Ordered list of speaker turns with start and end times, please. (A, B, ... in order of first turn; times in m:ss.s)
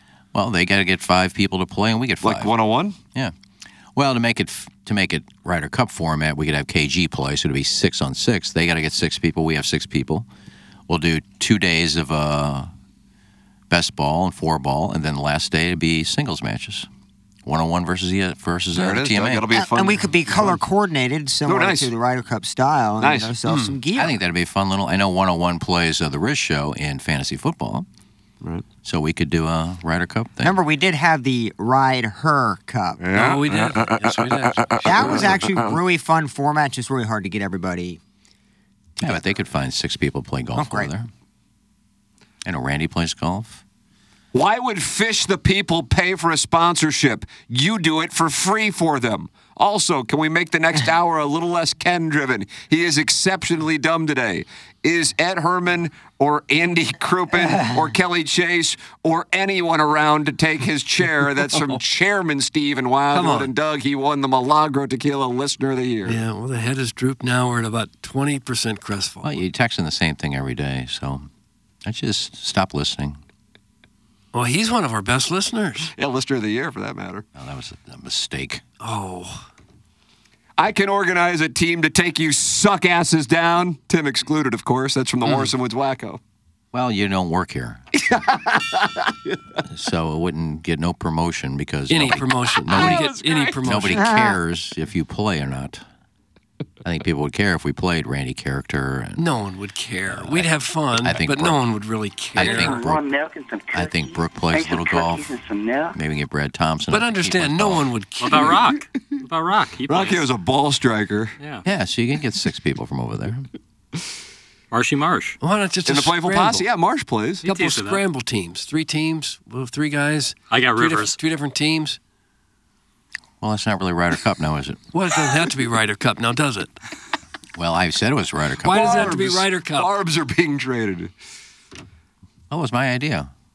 0:00.3-0:02.5 A
0:02.2-0:03.0 B
0:03.9-0:10.2 A
0:10.9-0:12.7 A
0:13.7-0:16.9 A
0:17.4-0:19.5 A
0:18.7-0:20.6 B
0:19.5-0:24.2 C
0:21.4-0:21.9 B
0:23.0-0:23.3 B
0:23.4-0:23.8 D
0:23.9-0:27.8 A
0:28.8-0:30.6 A
0:30.4-0:33.1 C
0:33.0-0:35.8 B
0:33.1-0:35.1 D
0:34.8-0:38.0 C
0:39.0-0:39.3 C
0:39.0-0:41.1 A
0:40.5-0:40.9 C
0:42.4-0:43.6 A
0:44.3-1:06.2 B
1:03.1-1:03.5 D
1:06.0-1:09.4 D
1:09.2-1:11.3 A
1:11.8-1:13.2 A
1:14.3-1:15.9 D
1:16.0-1:17.2 B
1:17.3-1:18.6 A
1:18.8-1:19.4 D
1:20.6-1:26.2 B
1:25.2-1:25.5 D
1:26.7-1:27.8 A
1:28.1-1:29.1 B
1:29.7-1:35.8 A
1:31.9-1:34.2 D
1:32.7-1:33.6 B
1:33.9-1:34.4 C
1:36.8-1:39.2 A
1:39.2-1:42.9 D
1:40.1-1:41.6 A
1:42.3-1:43.1 A
1:42.4-1:46.0 E
1:43.7-1:45.3 A
1:45.9-1:47.9 A
1:46.8-1:48.8 D
1:48.2-1:50.2 F
1:49.9-1:51.3 B
1:51.4-1:51.6 F
1:51.6-1:53.5 A
1:54.7-1:55.4 F
1:55.4-1:56.6 D
1:55.8-1:57.5 B
1:57.4-1:58.0 F
1:57.4-2:02.0 D
2:00.5-2:01.2 F
2:03.4-2:04.8 A
2:04.9-2:06.7 D
2:07.6-2:09.1 A
2:08.6-2:09.9 D
2:08.7-2:11.1 B
2:12.5-2:13.3 A